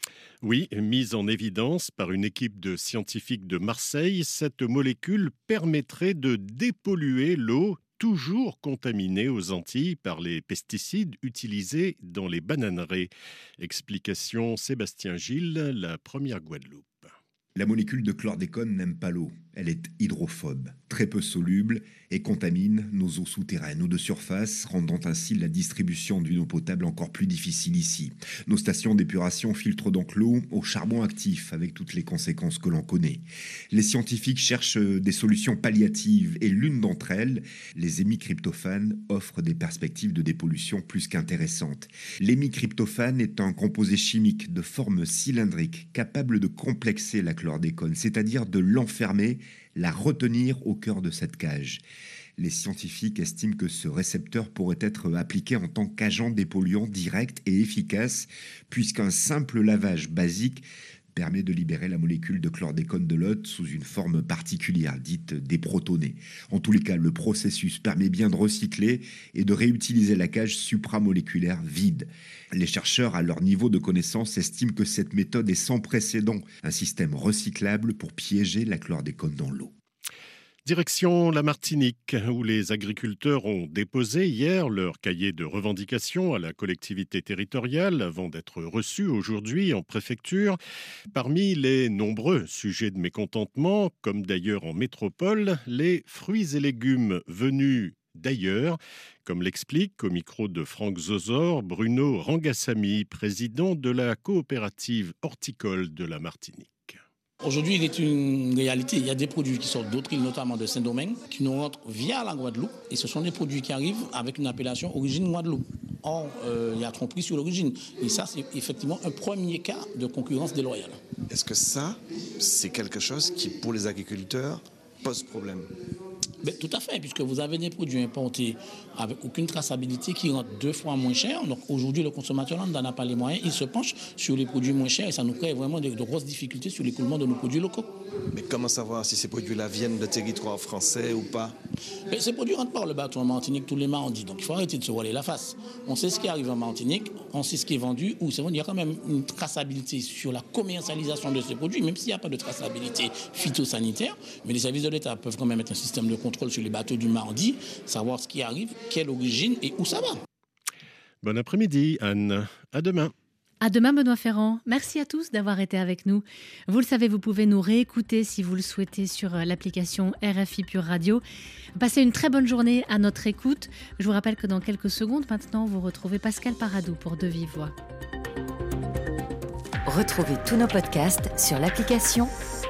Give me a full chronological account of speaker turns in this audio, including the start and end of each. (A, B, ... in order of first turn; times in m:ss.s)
0:00.4-0:13.1 A
0:13.6-0:17.1 A
0:17.6-0:51.8 B
0:52.4-1:19.7 B
1:20.6-1:30.6 A
1:31.1-1:47.0 A
1:47.4-2:01.0 C
2:01.3-2:05.7 D
2:06.4-2:17.9 C
2:18.3-2:21.6 D
2:22.1-2:40.2 C
2:41.2-2:43.1 A
2:43.6-2:51.2 E
2:51.8-2:57.7 E
2:59.9-3:02.3 F